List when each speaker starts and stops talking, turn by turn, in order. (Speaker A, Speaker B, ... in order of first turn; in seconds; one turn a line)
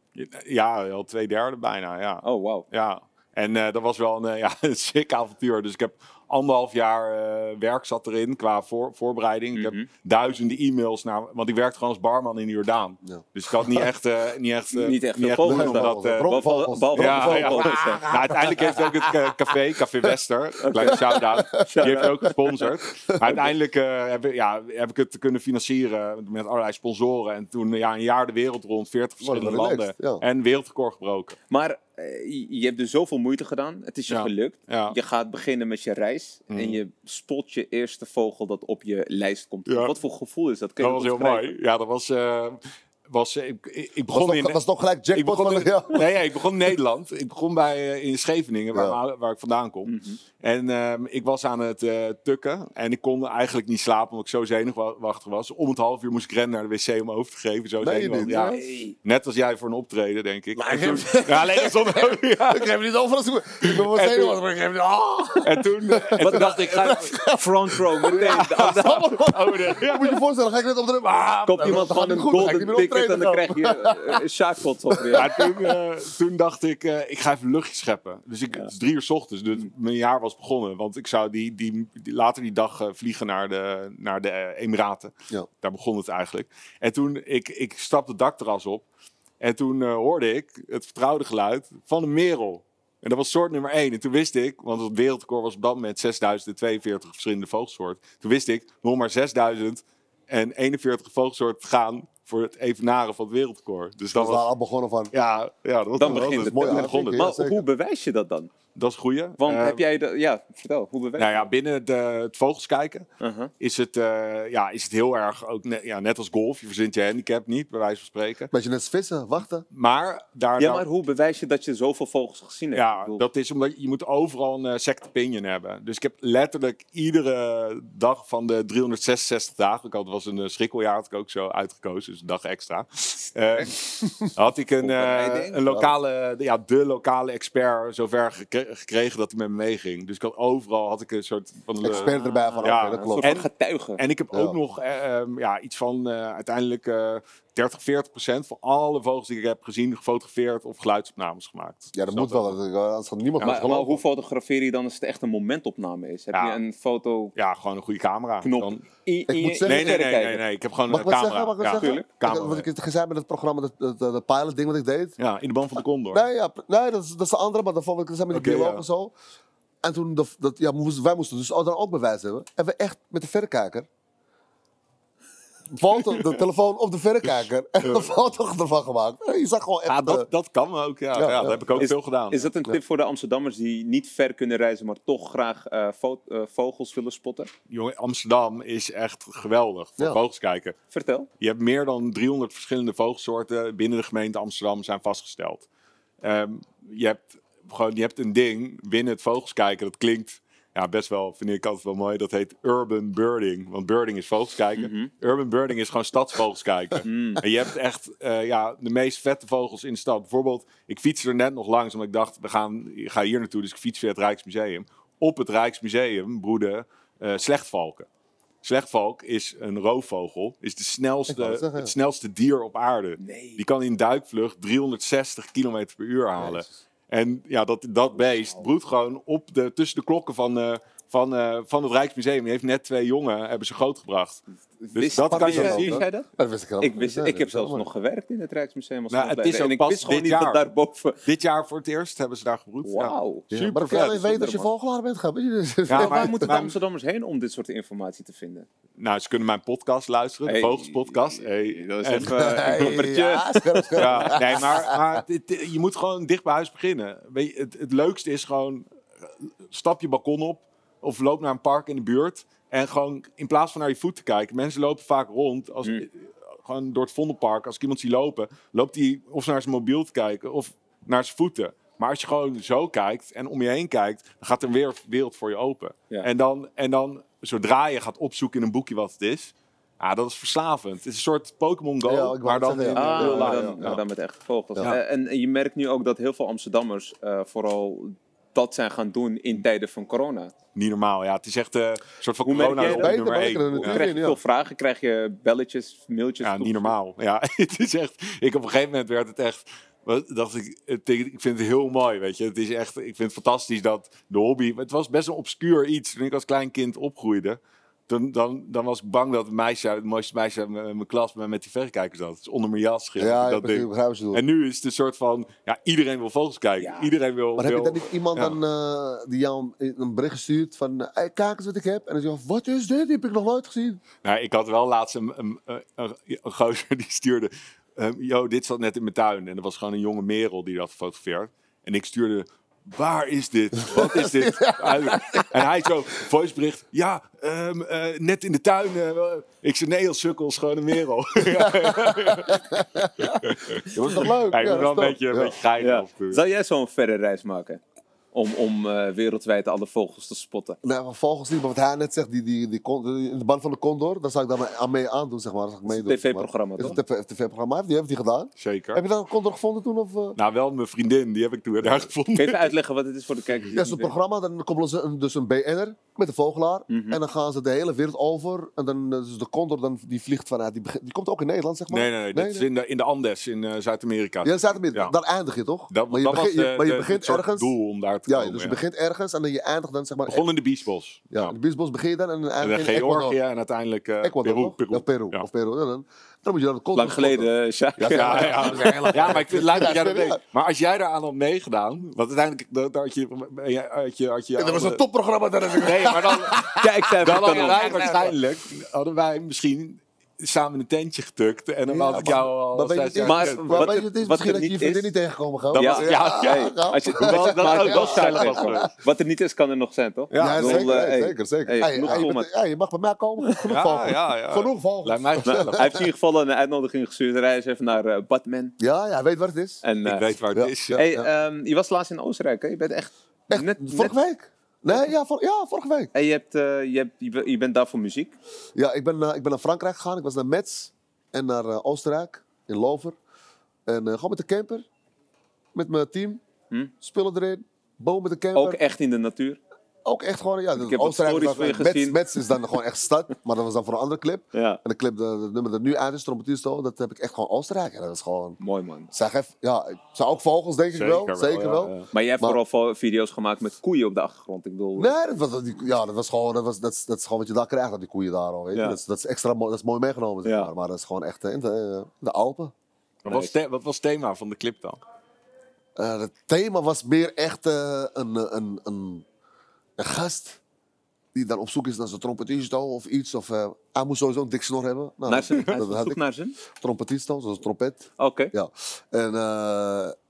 Speaker A: 0.2-16.4
Speaker B: 2.2-2.7
Speaker B: 9.6-9.9
Speaker C: 13.0-13.9
Speaker B: 14.7-18.1
Speaker C: 15.4-19.0
Speaker A: 16.9-31.4
Speaker B: 20.6-22.7
Speaker C: 20.8-22.3
Speaker C: 29.2-30.2
Speaker B: 31.5-41.5
Speaker A: 34.1-35.0
Speaker A: 36.5-36.8
Speaker A: 39.7-39.9
Speaker A: 40.8-44.6
Speaker C: 44.1-46.1
Speaker A: 45.1-62.8
Speaker C: 48.7-49.0
Speaker B: 49.9-50.2
Speaker C: 57.8-58.7
Speaker B: 58.5-58.9
Speaker C: 60.5-74.2
Speaker A: 63.6-64.4
Speaker A: 65.4-67.1
Speaker B: 66.2-69.2
Speaker A: 68.1-70.2
Speaker B: 71.5-75.4
Speaker C: 74.9-75.8
Speaker A: 75.1-88.9
Speaker A: 89.4-104.5
Speaker C: 104.1-105.1
Speaker A: 105.1-107.2
Speaker B: 106.0-108.5
Speaker C: 106.0-107.6
Speaker A: 108.8-109.8
Speaker B: 109.4-111.5
Speaker A: 111.2-113.1
Speaker B: 113.2-113.5
Speaker A: 113.6-118.5
Speaker C: 118.5-119.7
Speaker A: 119.7-120.8
Speaker B: 120.6-123.2
Speaker A: 122.7-152.6
Speaker B: 134.8-135.7
Speaker C: 141.8-143.3
Speaker B: 141.9-144.0
Speaker C: 144.3-144.6
Speaker C: 151.9-154.0
Speaker A: 153.4-153.7
Speaker B: 153.4-157.3
Speaker A: 156.3-156.6
Speaker A: 157.3-158.8
Speaker B: 158.4-160.4
Speaker C: 159.3-160.0
Speaker A: 159.7-162.7
Speaker C: 160.9-165.2
Speaker B: 161.7-162.1
Speaker A: 165.2-166.2
Speaker C: 166.1-169.1
Speaker A: 168.3-168.8
Speaker C: 169.8-173.9
Speaker C: 175.7-180.3
Speaker A: 177.8-178.1
Speaker A: 179.9-182.5
Speaker C: 181.1-181.9
Speaker B: 181.8-187.5
Speaker A: 187.7-190.8
Speaker B: 190.9-191.3
Speaker A: 191.4-195.7
Speaker A: 196.2-218.1
Speaker B: 204.8-205.1
Speaker B: 207.0-207.4
Speaker A: 218.6-236.1
Speaker C: 221.3-221.9
Speaker B: 223.2-223.6
Speaker C: 226.4-226.8
Speaker B: 234.9-236.3
Speaker C: 235.2-237.9
Speaker B: 236.8-241.2
Speaker A: 239.1-240.6
Speaker A: 241.2-244.2
Speaker B: 242.8-244.7
Speaker C: 243.5-246.6
Speaker A: 245.9-246.8
Speaker B: 245.9-248.7
Speaker A: 249.0-253.0
Speaker B: 250.5-254.4
Speaker C: 252.4-255.0
Speaker A: 254.0-258.9
Speaker A: 259.7-284.0
Speaker C: 282.0-284.0
Speaker B: 282.9-290.5
Speaker A: 290.8-294.1
Speaker B: 292.4-293.2
Speaker C: 292.8-294.4
Speaker B: 293.8-296.9
Speaker A: 296.4-318.6
Speaker C: 313.2-314.4
Speaker B: 316.8-317.1
Speaker C: 317.6-324.0
Speaker A: 324.2-346.4
Speaker C: 333.8-335.6
Speaker C: 341.6-343.4
Speaker C: 343.9-345.6
Speaker B: 345.8-347.8
Speaker B: 348.3-350.8
Speaker C: 350.8-360.4
Speaker B: 355.9-357.0
Speaker A: 358.6-359.0
Speaker A: 360.4-362.7
Speaker B: 362.4-364.1
Speaker C: 363.7-372.7
Speaker B: 366.9-367.2
Speaker A: 371.9-375.1
Speaker C: 374.4-377.7
Speaker A: 375.9-378.8
Speaker C: 378.3-380.5
Speaker A: 380.3-381.6
Speaker C: 381.3-383.4
Speaker A: 382.6-385.5
Speaker C: 384.2-390.4
Speaker B: 386.9-389.5
Speaker A: 388.1-395.0
Speaker C: 394.6-398.2
Speaker A: 395.8-403.9
Speaker B: 396.8-398.4
Speaker C: 401.9-408.9
Speaker B: 403.2-405.1
Speaker A: 405.7-408.9
Speaker B: 405.7-412.5
Speaker A: 410.3-411.0
Speaker C: 410.4-416.1
Speaker A: 413.7-416.0
Speaker B: 415.4-418.8
Speaker C: 418.8-419.8
Speaker B: 419.8-420.3
Speaker A: 420.1-421.0
Speaker C: 420.5-421.3
Speaker B: 421.0-424.2
Speaker C: 423.5-426.1
Speaker B: 426.1-428.4
Speaker C: 428.8-433.2
Speaker C: 433.9-434.9
Speaker C: 435.7-436.4
Speaker C: 437.0-438.8
Speaker B: 438.6-439.6
Speaker C: 440.1-448.6
Speaker B: 440.8-442.5
Speaker B: 444.5-444.8
Speaker B: 448.6-449.1
Speaker C: 449.1-452.6
Speaker A: 450.9-452.1
Speaker B: 452.1-455.2
Speaker C: 455.0-462.7
Speaker B: 458.7-459.0
Speaker B: 460.4-460.7
Speaker B: 463.3-463.5
Speaker A: 463.3-465.0
Speaker C: 466.0-469.2
Speaker C: 470.0-470.6
Speaker C: 471.3-476.2
Speaker B: 475.3-476.6
Speaker C: 476.8-480.1
Speaker B: 478.2-478.5